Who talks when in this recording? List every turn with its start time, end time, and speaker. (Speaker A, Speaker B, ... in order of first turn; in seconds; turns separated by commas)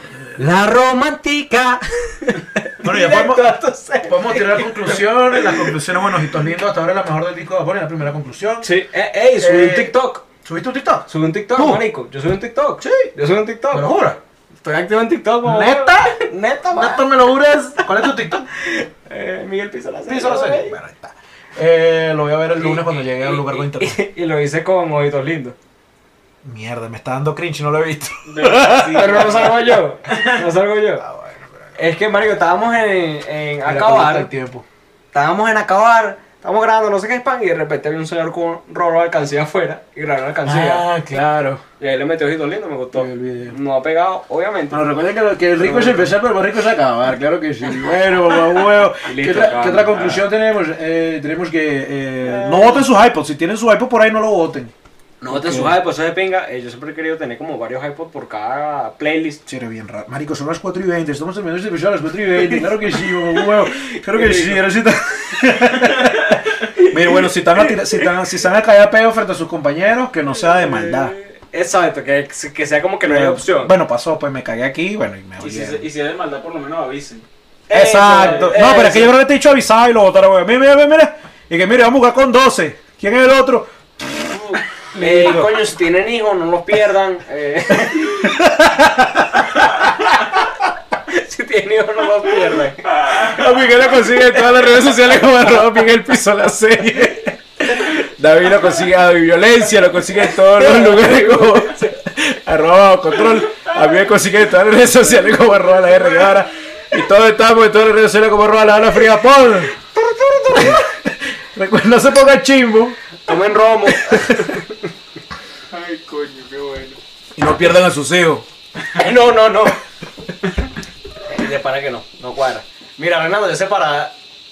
Speaker A: 0.3-5.8, Speaker B: 2.8-3.5, Speaker B: 4.1-8.7, Speaker A: 8.6-10.3, Speaker B: 9.4-11.8, Speaker A: 11.1-14.1, Speaker B: 12.8-13.1, Speaker B: 13.7-14.2, Speaker A: 14.6-17.1, Speaker B: 15.4-18.5, Speaker A: 18.6-20.8, Speaker B: 20.1-24.0, Speaker A: 22.6-25.6, Speaker B: 26.4-29.3, Speaker C: 28.2-30.4, Speaker A: 28.9-31.1, Speaker B: 31.0-31.8, Speaker A: 31.8-34.3, Speaker B: 33.6-34.6, Speaker A: 35.1-40.9, Speaker B: 40.5-41.6, Speaker A: 41.8-44.9, Speaker B: 42.9-43.6, Speaker B: 44.7-55.8, Speaker A: 45.6-46.1, Speaker A: 49.0-50.3, Speaker A: 52.2-52.9, Speaker A: 55.2-59.4, Speaker B: 59.5-71.1, Speaker A: 62.4-64.6, Speaker A: 66.6-68.2, Speaker A: 70.3-73.7, Speaker B: 73.0-75.9, Speaker C: 75.4-77.3, Speaker A: 77.7-79.1, Speaker B: 77.7-85.6, Speaker C: 78.1-78.7, Speaker A: 84.3-88.3, Speaker B: 87.9-90.6, Speaker A: 91.1-92.9, Speaker B: 93.0-109.8, Speaker A: 100.3-101.9, Speaker A: 110.4-110.8, Speaker B: 110.4-113.0, Speaker A: 113.2-114.7, Speaker B: 113.9-114.6, Speaker C: 115.7-117.0, Speaker B: 117.4-118.5, Speaker A: 118.9-119.8, Speaker A: 121.2-124.2